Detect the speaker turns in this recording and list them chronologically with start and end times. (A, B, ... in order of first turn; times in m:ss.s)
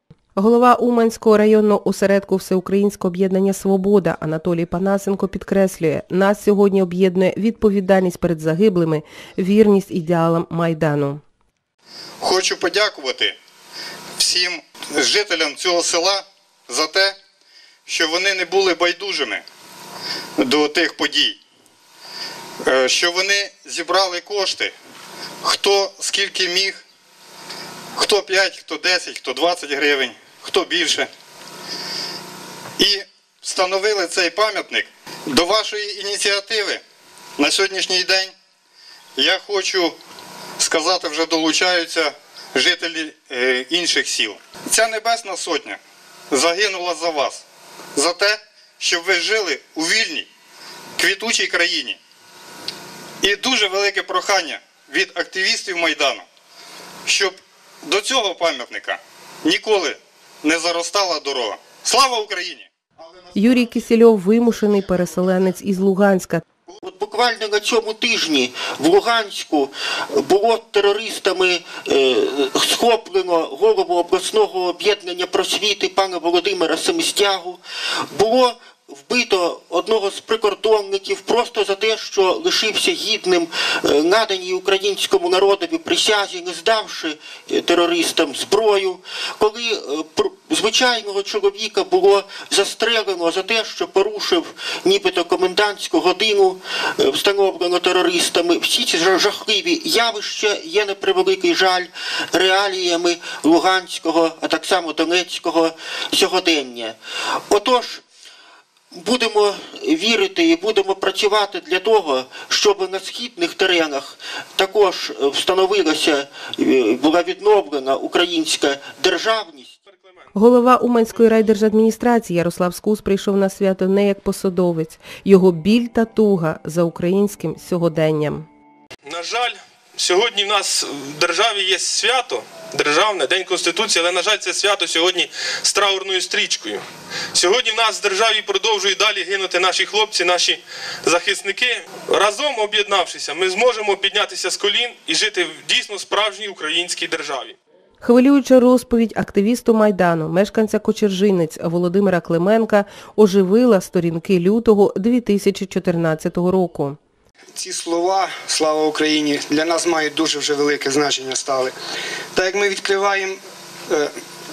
0:00.4-0:11.2 A
0:12.2-0:13.4 B
0:14.2-0:17.2 B
0:17.9-0:19.4 B
0:20.4-0:21.4 B
0:22.6-0:24.7 B
0:25.4-0:26.8 B
0:27.9-0:31.1 B
0:32.8-0:36.8 B
0:37.4-0:38.3 B
0:39.2-0:39.9 B
0:40.6-0:45.8 B
0:46.3-0:47.4 B
0:47.9-0:50.3 B
0:51.0-0:52.0 B
0:53.2-0:56.2 B
0:57.0-1:02.7 B
1:03.3-1:06.4 A
1:06.8-1:17.6 C
1:18.1-1:47.0 C
1:47.5-1:48.0 C
1:48.9-1:59.8 C
2:00.3-2:08.5 A
2:09.0-2:27.6 D
2:28.0-2:37.0 A
2:37.6-2:41.7 E
2:42.3-2:44.1 E